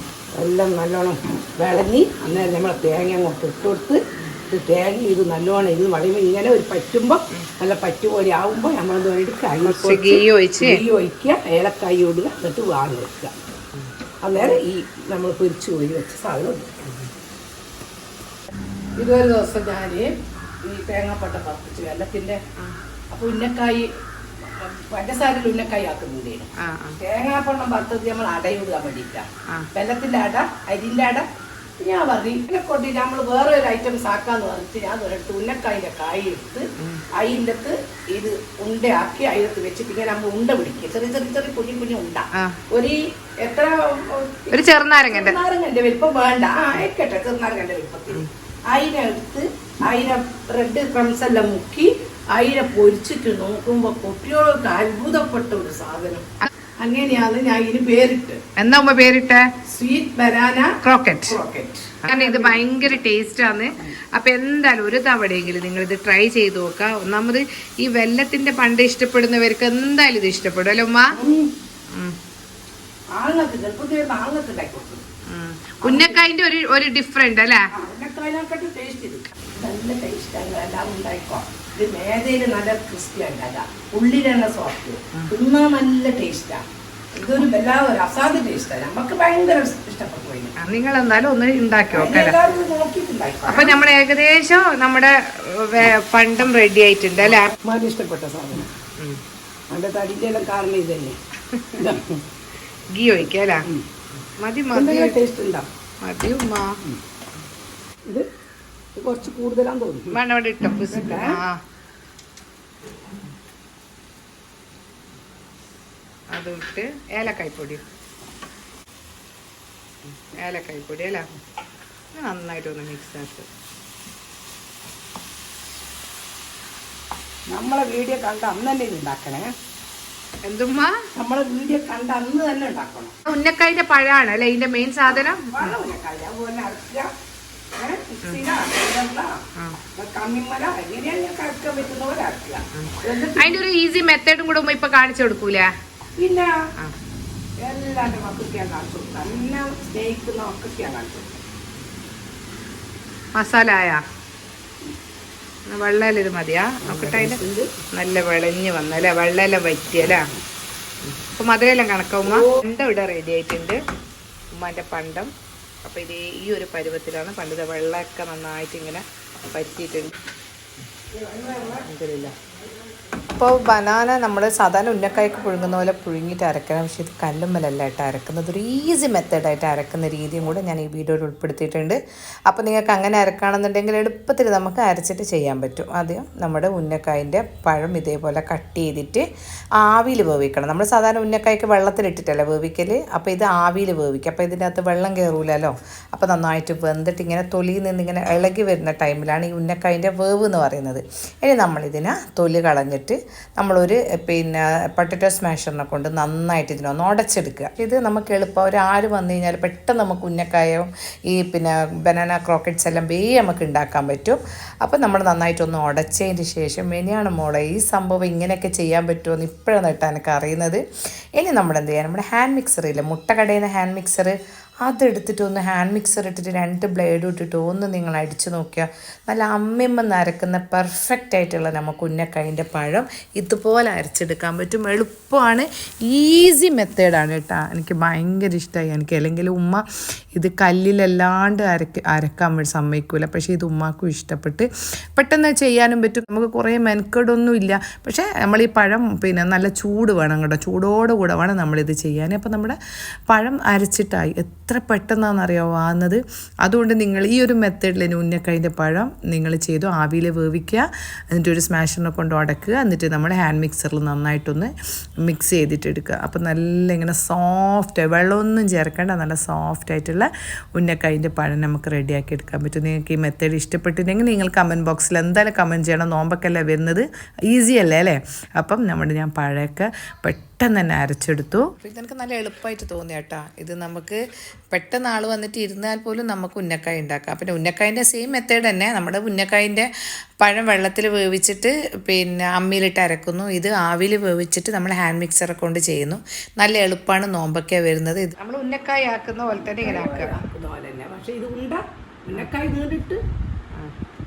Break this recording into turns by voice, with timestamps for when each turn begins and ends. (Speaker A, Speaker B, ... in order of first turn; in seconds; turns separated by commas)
Speaker A: 0.3-13.3, Speaker B: 9.6-10.8, Speaker A: 14.2-16.7, Speaker A: 19.0-20.1, Speaker A: 20.6-22.4, Speaker A: 23.1-23.9, Speaker A: 24.4-31.3, Speaker B: 26.6-27.0, Speaker A: 31.8-56.2, Speaker B: 42.3-42.6, Speaker B: 44.5-45.4, Speaker A: 56.8-58.4, Speaker B: 58.6-59.5, Speaker A: 59.6-60.8, Speaker B: 60.8-61.4, Speaker A: 61.3-62.7, Speaker B: 62.0-71.2, Speaker A: 71.1-71.5, Speaker A: 73.1-75.0, Speaker B: 75.3-77.7, Speaker A: 75.8-76.2, Speaker A: 77.7-86.6, Speaker A: 87.1-90.5, Speaker B: 90.6-92.4, Speaker A: 91.9-93.8, Speaker B: 93.5-97.5, Speaker A: 97.2-98.7, Speaker A: 99.7-101.2, Speaker B: 101.5-101.8, Speaker A: 101.7-102.2, Speaker B: 102.9-103.7, Speaker B: 104.2-105.2, Speaker A: 104.7-105.7, Speaker B: 106.0-106.8, Speaker A: 109.0-110.2, Speaker B: 110.1-111.6, Speaker A: 110.9-111.4, Speaker B: 116.3-117.8, Speaker B: 120.3-121.2, Speaker B: 122.1-123.5, Speaker A: 127.5-129.5, Speaker B: 130.4-131.0, Speaker A: 131.1-133.1, Speaker B: 133.3-135.8, Speaker A: 135.1-137.1, Speaker A: 137.8-139.4, Speaker A: 139.9-143.6, Speaker B: 142.7-145.7, Speaker A: 146.2-146.6, Speaker A: 147.6-151.3, Speaker B: 153.3-154.0, Speaker B: 155.7-157.4, Speaker A: 156.8-157.7, Speaker B: 157.9-160.3, Speaker B: 161.1-163.8, Speaker A: 162.2-162.6, Speaker B: 164.5-165.3, Speaker B: 165.8-170.1, Speaker A: 171.1-171.9, Speaker B: 171.7-172.3, Speaker B: 173.3-182.0, Speaker A: 175.0-175.9, Speaker B: 182.5-189.2, Speaker B: 189.8-220.8, Speaker B: 221.4-252.8, Speaker B: 253.3-289.9, Speaker B: 290.4-300.3, Speaker A: 299.8-303.2